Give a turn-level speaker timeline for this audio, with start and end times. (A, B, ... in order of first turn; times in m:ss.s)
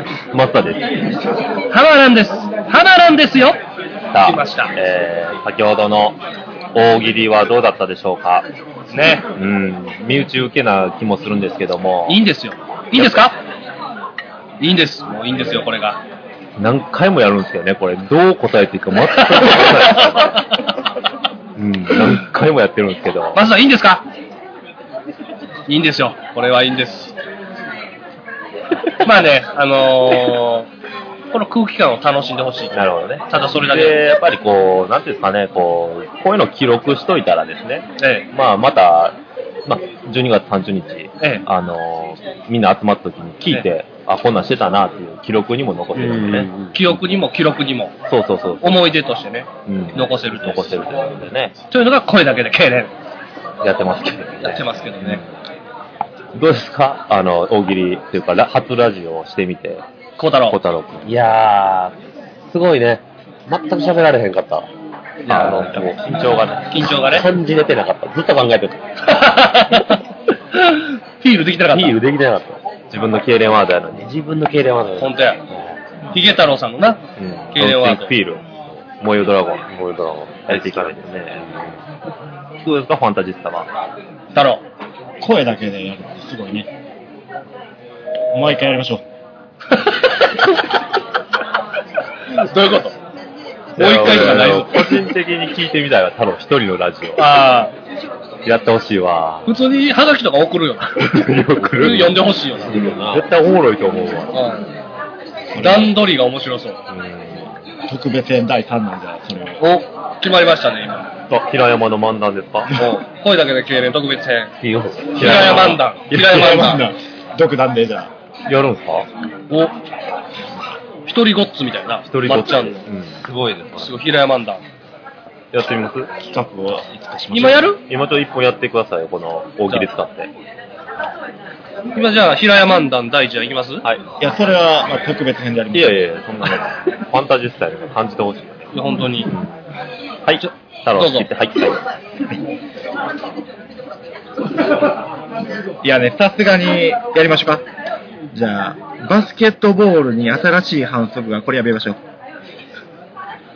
0:00.3-0:00.8 A
0:01.7-0:03.6 B
0:04.1-0:06.2 A
0:04.2-0:04.7 B
0:06.7-0:08.5 A
0:08.9-0:09.2 B
0:09.4-0:12.2 A
0:12.1-0:13.4 B
0:13.0-0:13.3 A
0:14.6-0:16.0 B
0:15.3-0:15.7 A
0:16.6-0:20.4 A
0:19.2-0:20.4 B
0:21.6-0:23.4 A
0:23.4-0:24.0 B
0:25.7-0:27.1 B
0:29.0-0:30.7 B
0:31.3-0:34.0 B
0:32.7-0:46.5 A
0:38.0-0:38.3 B
0:46.0-0:46.8 C
0:46.7-0:47.9 B
0:48.1-0:48.8 A
0:48.6-0:50.7 B
0:49.7-0:51.5 A
0:51.7-0:52.9 B
0:53.6-0:55.3 A
0:54.4-0:55.2 B
0:56.3-0:59.8 A
1:00.2-1:00.6 B
1:00.5-1:01.4 A
1:01.0-1:02.0 C
1:02.5-1:04.7 C
1:05.2-1:05.9 B
1:05.3-1:06.9 A
1:05.3-1:05.8 C
1:06.7-1:07.3 B
1:06.8-1:09.3 C
1:09.0-1:10.0 B
1:10.5-1:12.0 B
1:11.7-1:12.6 C
1:12.9-1:14.1 A
1:14.0-1:15.7 C
1:15.0-1:15.4 B
1:16.1-1:17.0 B
1:17.2-1:18.4 A
1:17.5-1:18.1 B
1:19.0-1:19.7 A
1:19.7-1:21.8 C
1:20.5-1:21.4 A
1:22.6-1:23.7 A
1:24.3-1:24.6 B
1:25.2-1:26.7 D
1:28.3-1:29.0 D
1:32.3-1:33.0 B
1:33.7-1:35.0 B
1:33.8-1:37.2 A
1:37.2-1:37.7 B
1:38.4-1:39.5 A
1:39.4-1:42.9 B
1:41.0-1:44.3 A
1:41.5-1:43.3 C
1:44.3-1:44.7 B
1:45.5-1:45.9 D
1:45.6-1:46.8 B
1:46.9-1:47.5 A
1:47.9-1:49.6 D
1:49.6-1:51.1 B
1:51.3-1:52.8 A
1:52.7-1:54.5 B
1:54.6-1:55.8 C
1:55.1-1:56.8 B
1:55.2-1:56.8 A
1:56.2-1:58.1 D
1:58.5-1:59.1 A
1:59.5-1:59.7 B
2:01.0-2:02.8 B
2:02.1-2:03.2 A
2:03.2-2:04.0 C
2:03.8-2:04.6 B
2:05.5-2:06.1 A
2:06.3-2:07.7 D
2:07.3-2:07.8 B
2:07.9-2:10.3 A
2:11.9-2:13.8 B
2:14.2-2:16.0 D
2:15.7-2:18.7 A
2:18.7-2:19.3 B
2:20.2-2:21.8 A
2:20.4-2:21.3 B
2:25.8-2:27.6 D
2:28.3-2:32.0 D